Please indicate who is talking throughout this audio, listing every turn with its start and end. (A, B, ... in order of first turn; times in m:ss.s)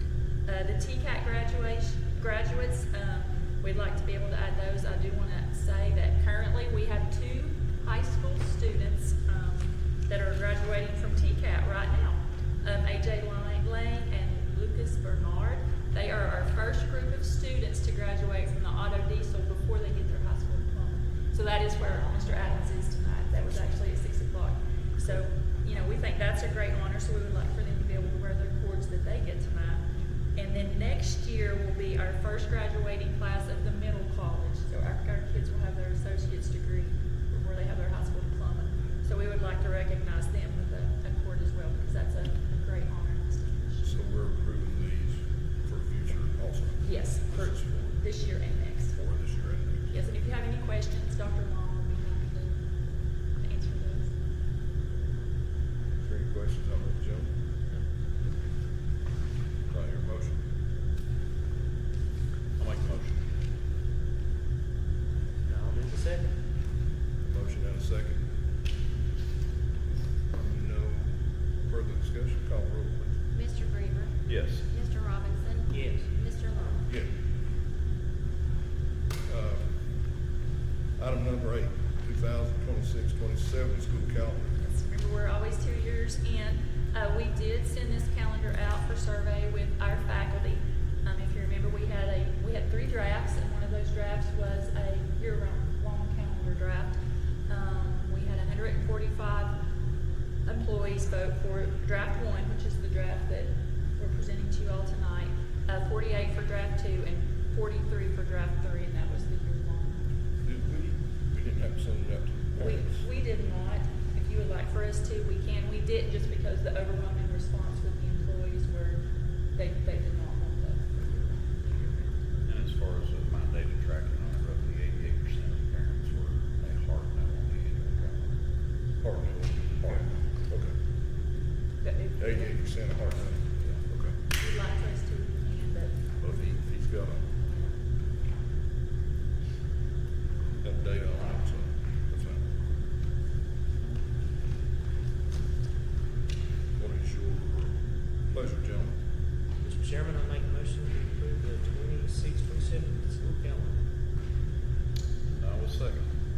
0:00.5-0:43.8 A
0:43.8-0:47.9 B
0:46.8-0:49.0 A
0:49.0-0:49.9 B
0:49.9-0:52.6 A
0:53.4-0:54.1 A
0:56.0-0:57.3 B
0:59.7-1:00.4 B
1:02.6-1:03.2 C
1:05.5-1:06.3 D
1:07.2-1:08.2 B
1:10.3-1:11.1 B
1:11.7-1:13.2 B
1:13.3-1:14.2 E
1:14.3-1:14.6 C
1:14.7-1:16.8 E
1:15.7-1:16.1 D
1:19.3-1:19.6 B
1:21.0-1:24.5 B
1:24.6-1:37.0 A
1:37.5-1:39.6 A
1:40.5-1:50.0 A
1:50.4-1:53.0 B
1:52.6-1:59.0 A
1:59.6-2:02.0 A
2:02.4-2:08.3 C
2:09.0-2:10.7 B
2:11.8-2:12.5 A
2:12.2-2:14.1 B
2:14.3-2:16.0 A
2:16.2-2:17.2 B
2:20.6-2:22.4 B
2:26.8-2:27.7 B
2:28.3-2:28.9 B
2:29.6-2:33.8 D
2:35.3-2:36.0 C